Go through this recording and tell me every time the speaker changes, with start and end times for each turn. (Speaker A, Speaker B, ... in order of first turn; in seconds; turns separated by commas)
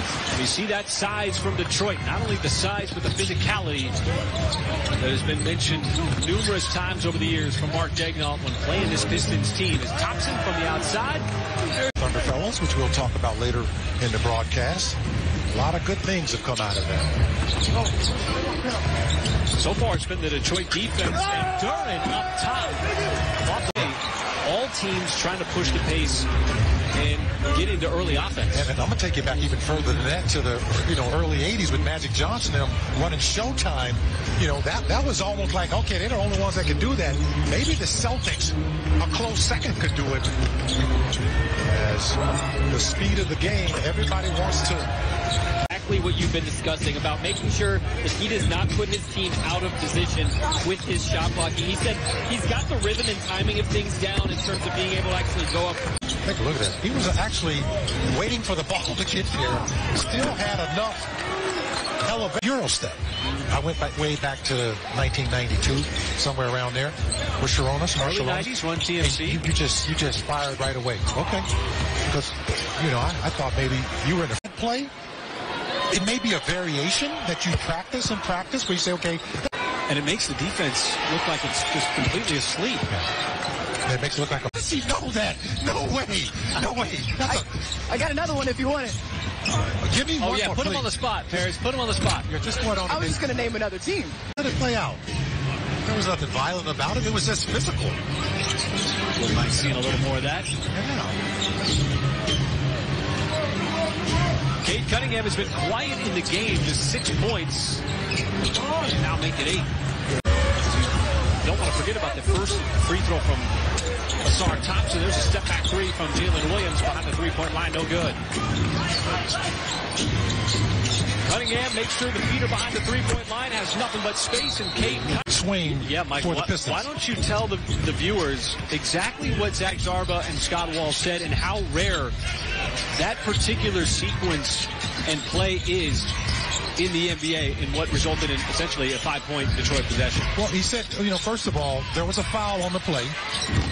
Speaker A: 0.3-4.0, Speaker A: 5.0-11.3, Speaker B: 12.0-15.0, Speaker B: 15.5-17.2, Speaker A: 19.6-22.9, Speaker A: 23.4-26.3, Speaker A: 26.9-28.7, Speaker B: 28.5-40.4, Speaker B: 41.7-44.9, Speaker C: 45.7-55.9, Speaker B: 56.2-61.1, Speaker B: 62.0-71.5, Speaker A: 68.0-69.4, Speaker B: 72.1-74.9, Speaker B: 75.9-79.5, Speaker A: 79.9-82.9, Speaker B: 83.9-87.5, Speaker D: 87.2-89.0, Speaker B: 89.7-91.5, Speaker A: 90.2-92.3, Speaker B: 92.2-93.2, Speaker D: 92.9-94.2, Speaker B: 94.3-95.0, Speaker B: 95.8-98.0, Speaker A: 99.2-100.5, Speaker B: 100.7-101.2, Speaker A: 104.6-107.8, Speaker A: 108.8-109.7, Speaker A: 111.4-113.5, Speaker A: 114.2-118.2, Speaker A: 121.3-132.1, Speaker B: 125.2-126.9, Speaker A: 132.9-136.1, Speaker A: 136.8-140.3, Speaker B: 140.4-143.2